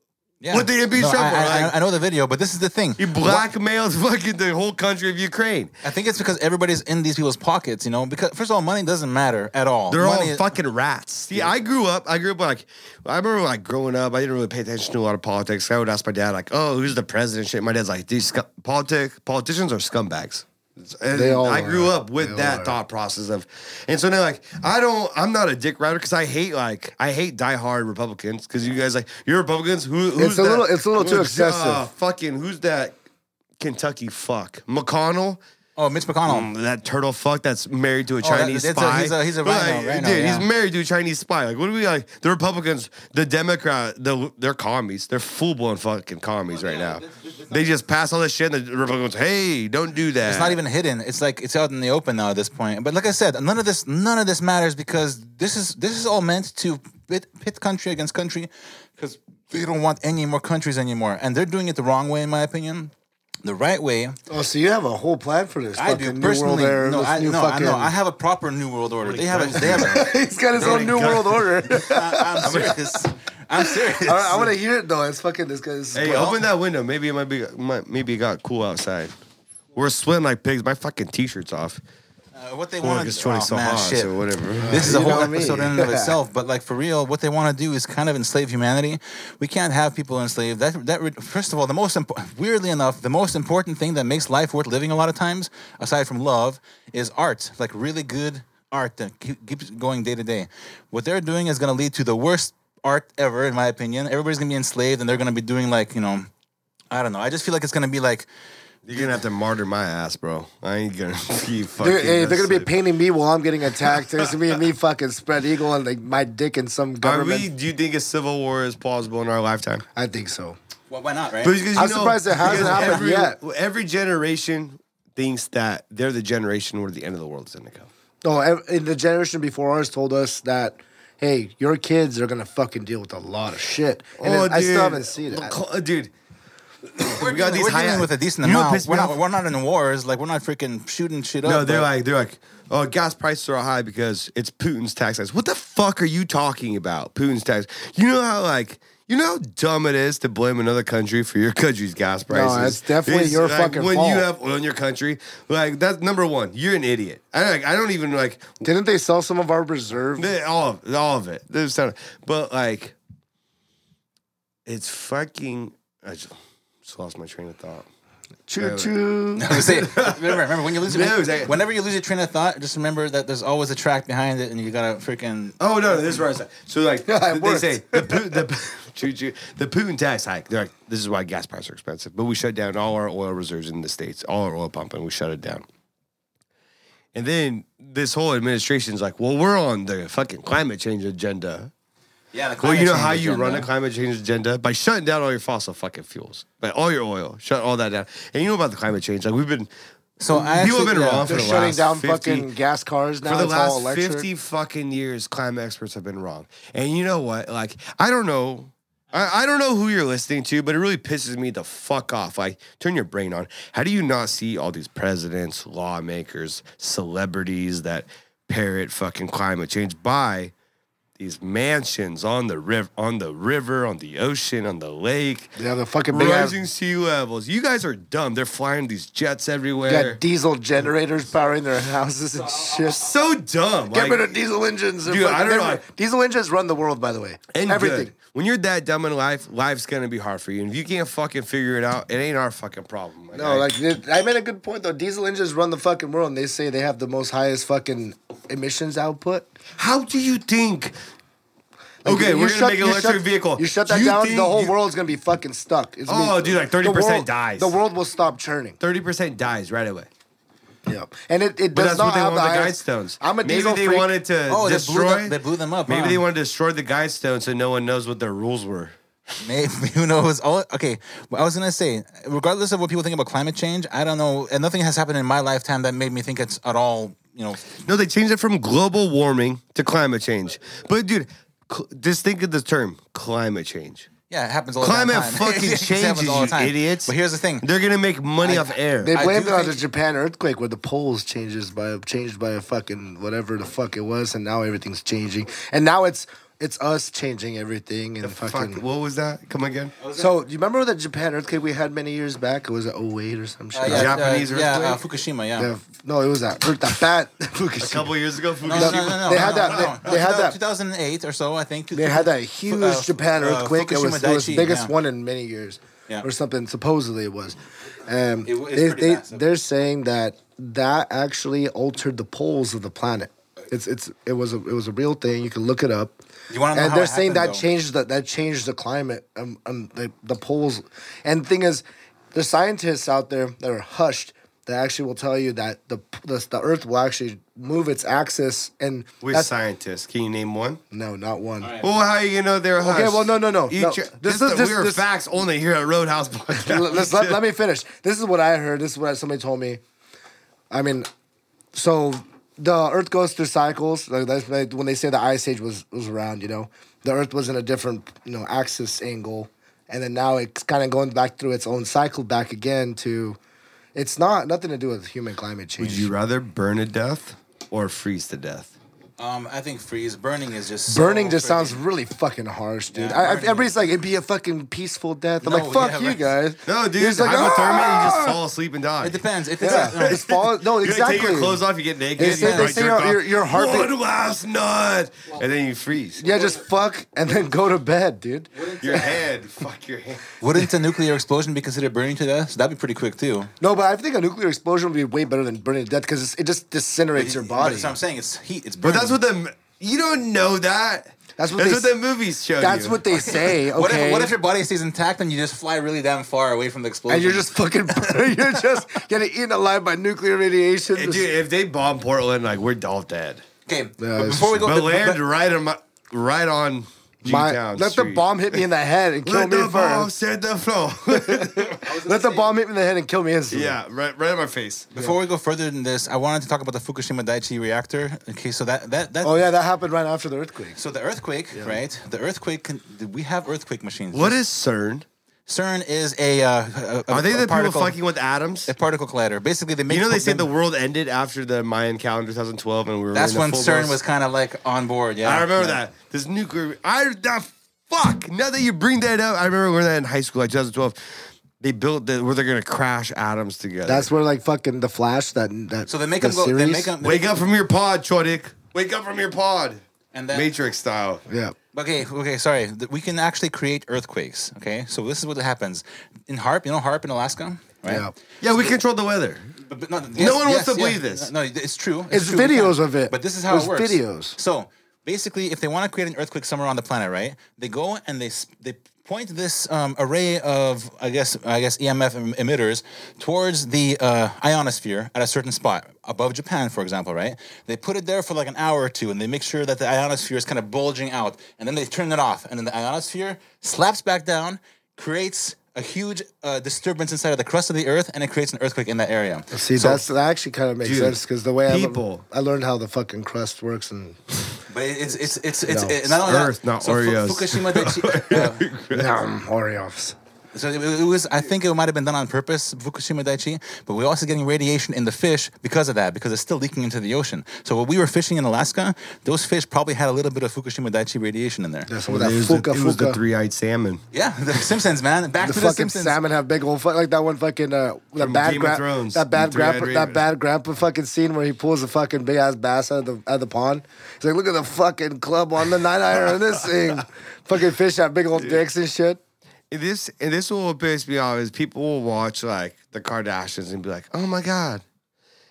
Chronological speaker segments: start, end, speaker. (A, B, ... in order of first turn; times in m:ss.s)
0:00.4-0:03.4 A
0:00.5-0:01.7 B
0:03.0-0:05.7 B
0:05.8-0:10.5 A
0:09.9-0:33.0 B
0:21.1-0:22.7 C
0:30.2-0:31.8 C
0:33.6-0:35.4 B
0:35.8-0:36.5 A
0:36.3-0:50.6 B
0:38.2-0:40.5 A
0:46.5-0:47.5 A
0:50.2-1:02.9 A
1:03.4-1:04.2 A
1:04.3-1:07.9 C
1:05.8-1:14.5 A
1:09.0-1:11.5 B
1:09.8-1:13.0 C
1:12.4-1:12.8 B
1:13.6-1:16.3 C
1:15.9-1:19.2 B
1:19.7-1:21.8 B
1:22.3-1:24.1 A
1:22.8-1:25.3 B
1:24.6-1:26.1 C
1:24.7-1:46.3 A
1:46.9-1:48.3 A
1:48.8-1:52.7 B
1:51.8-1:57.5 C
1:57.0-1:59.8 B
1:59.9-2:00.6 C
2:00.9-2:01.6 A
2:01.4-2:07.9 B
2:01.8-2:03.4 C
2:02.4-2:03.0 A
2:08.2-2:15.5 C
2:14.2-2:16.1 B
2:17.0-2:19.2 B
2:17.0-2:21.9 A
2:21.4-2:38.6 B
2:32.3-2:34.2 C
2:38.6-2:40.3 C
2:40.2-2:43.0 B
2:44.6-2:47.8 B
2:48.5-2:49.5 C
2:48.6-2:48.9 B
2:49.4-2:56.1 A
2:49.5-2:51.5 B
2:55.6-3:05.6 B
2:57.1-2:58.4 C
3:07.1-3:11.7 B
3:12.3-3:13.7 A
3:12.6-3:19.7 B
3:20.2-3:21.4 A
3:20.3-3:22.5 B
3:21.2-3:24.2 C
3:23.2-3:40.5 B
3:41.2-3:45.5 B
3:45.6-3:46.6 C
3:46.1-3:50.2 B
3:49.9-3:53.1 C
3:52.9-3:54.3 B
3:53.9-3:58.1 C
3:55.0-3:55.8 B
3:57.5-4:03.7 B
4:03.3-4:09.5 C
4:09.8-4:11.0 B
4:12.0-4:18.8 C
4:12.0-4:14.7 B
4:16.1-4:17.7 B
4:18.8-4:20.1 B
4:20.8-4:24.1 C
4:21.7-4:25.4 B
4:24.5-4:26.2 A
4:25.9-4:29.0 B
4:29.4-4:37.7 A
4:37.8-4:44.1 B
4:44.3-4:47.7 A
4:44.8-4:49.1 B
4:48.4-4:49.8 A
4:49.0-4:58.8 C
4:58.2-4:59.9 B
5:00.0-5:00.3 A
5:00.2-5:04.2 C
5:03.7-5:05.7 A
5:03.8-5:05.0 B
5:05.6-5:08.2 C
5:07.8-5:10.4 B
5:08.6-5:14.9 A
5:08.7-5:10.6 C
5:11.9-5:26.2 C
5:18.4-5:19.4 A
5:26.5-5:27.6 A
5:26.7-5:39.5 C
5:39.2-5:40.8 B
5:40.9-5:41.7 C
5:41.6-5:41.9 A
5:41.8-5:47.4 B
5:42.8-5:45.0 C
5:46.5-5:49.8 C
5:50.7-5:51.1 C
5:51.7-6:03.4 C
6:03.9-6:06.1 C
6:05.8-6:08.7 B
6:09.2-6:11.8 A
6:10.9-6:18.4 C
6:12.9-6:13.7 A
6:15.4-6:16.2 A
6:16.6-6:26.3 B
6:19.0-6:20.2 A
6:19.6-6:21.6 C
6:22.2-6:23.9 C
6:22.4-6:22.8 A
6:26.2-6:28.5 C
6:28.5-6:29.2 A
6:28.8-6:30.3 B
6:30.4-6:33.5 A
6:33.6-6:37.9 C
6:37.1-6:39.2 A
6:38.8-6:43.0 B
6:41.4-6:41.9 C
6:42.6-6:44.3 C
6:43.1-6:48.6 A
6:47.1-6:51.2 C
6:50.9-6:53.4 B
6:53.7-6:55.2 A
6:54.0-6:54.6 C
6:54.6-6:58.6 B
6:57.2-7:00.1 C
6:59.2-7:01.8 B
7:01.1-7:03.7 C
7:01.8-7:02.5 A
7:03.5-7:04.9 B
7:04.9-7:09.5 A
7:09.2-7:10.8 C
7:10.8-7:14.4 A
7:14.1-7:15.0 B
7:15.5-7:18.0 A
7:17.1-7:18.7 B
7:18.7-7:20.5 A
7:19.9-7:24.0 B
7:23.1-7:25.8 A
7:25.2-7:34.1 B
7:33.8-7:36.9 C
7:35.9-7:37.4 A
7:37.0-7:41.2 B
7:40.1-7:40.5 A
7:41.3-7:41.5 C
7:41.7-7:48.7 A
7:47.8-7:48.1 C
7:48.4-7:49.4 B
7:49.7-8:20.0 A
7:50.2-7:51.3 B
7:52.1-7:54.4 C
8:19.5-8:24.5 C
8:20.8-8:22.2 B
8:24.7-8:28.6 A
8:25.6-8:26.0 C
8:26.1-8:29.1 B
8:28.9-8:30.2 C
8:30.5-8:41.9 A
8:41.9-8:43.2 C
8:42.1-8:44.0 B
8:44.1-8:46.2 A
8:45.4-8:59.2 C
8:48.2-8:50.2 B
8:59.7-9:04.8 B